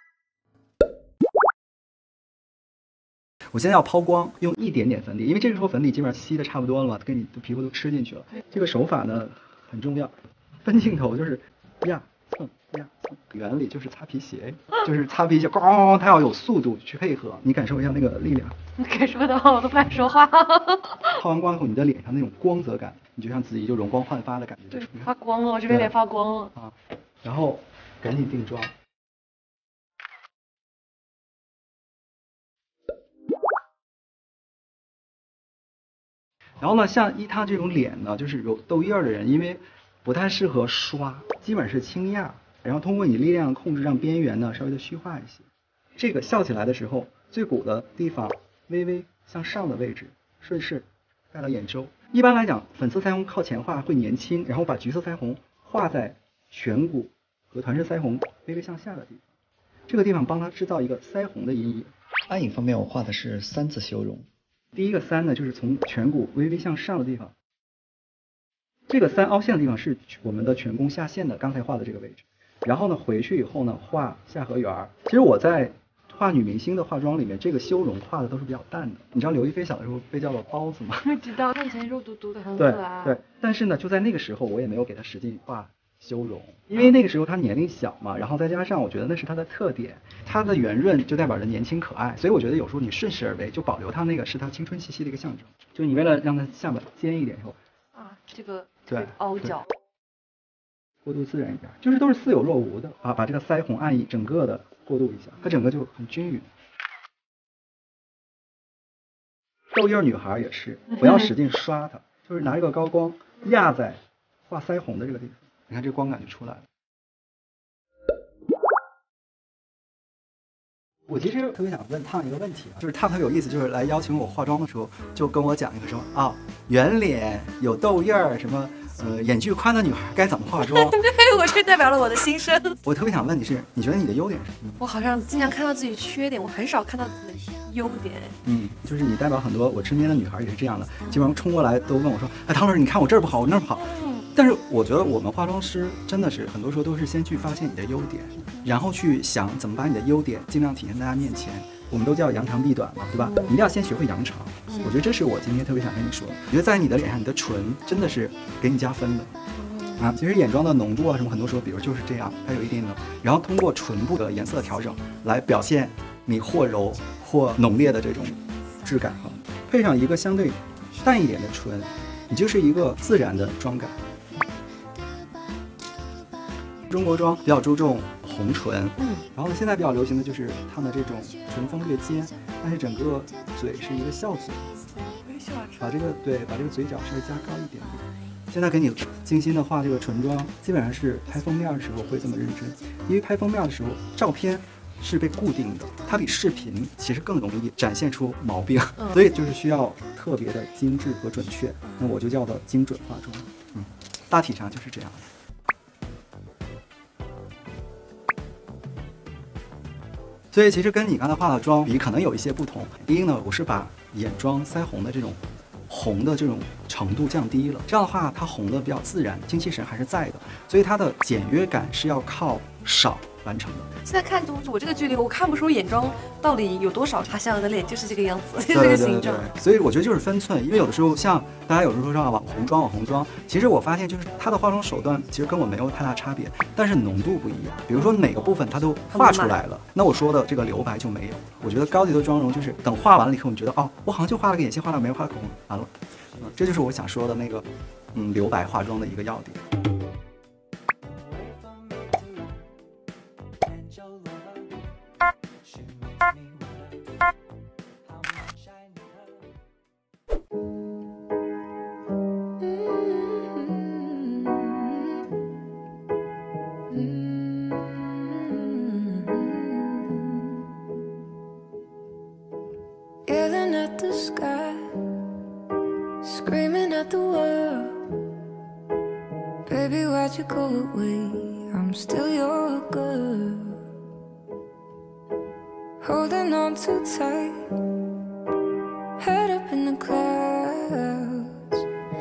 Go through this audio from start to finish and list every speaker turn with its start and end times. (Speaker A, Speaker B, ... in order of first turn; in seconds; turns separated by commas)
Speaker A: 3.5-18.6, Speaker B: 18.8-21.2, Speaker A: 21.1-25.1, Speaker B: 24.7-26.5, Speaker A: 26.5-28.7, Speaker A: 36.6-59.2, Speaker A: 59.9-67.3, Speaker A: 68.9-81.1, Speaker B: 81.0-83.2, Speaker A: 82.5-97.6, Speaker B: 97.9-99.7, Speaker A: 98.9-99.6, Speaker A: 101.0-106.5, Speaker A: 109.7-116.7, Speaker A: 121.1-131.0, Speaker B: 130.7-132.8, Speaker A: 132.8-134.8, Speaker B: 134.8-138.3, Speaker A: 138.4-159.3, Speaker B: 144.0-144.2, Speaker B: 153.2-153.6, Speaker B: 154.7-154.9, Speaker B: 159.5-160.1, Speaker A: 160.0-174.0, Speaker A: 176.9-184.7, Speaker B: 179.0-179.3, Speaker B: 185.2-185.9, Speaker A: 185.8-205.3, Speaker B: 199.0-199.2, Speaker A: 210.5-223.9, Speaker B: 224.0-229.5, Speaker A: 228.7-249.6, Speaker B: 237.9-238.2, Speaker B: 239.1-239.6, Speaker C: 262.6-265.2, Speaker C: 266.9-270.6, Speaker C: 273.2-275.4, Speaker C: 276.2-278.2, Speaker C: 279.6-283.8, Speaker C: 286.0-287.8, Speaker C: 289.2-291.9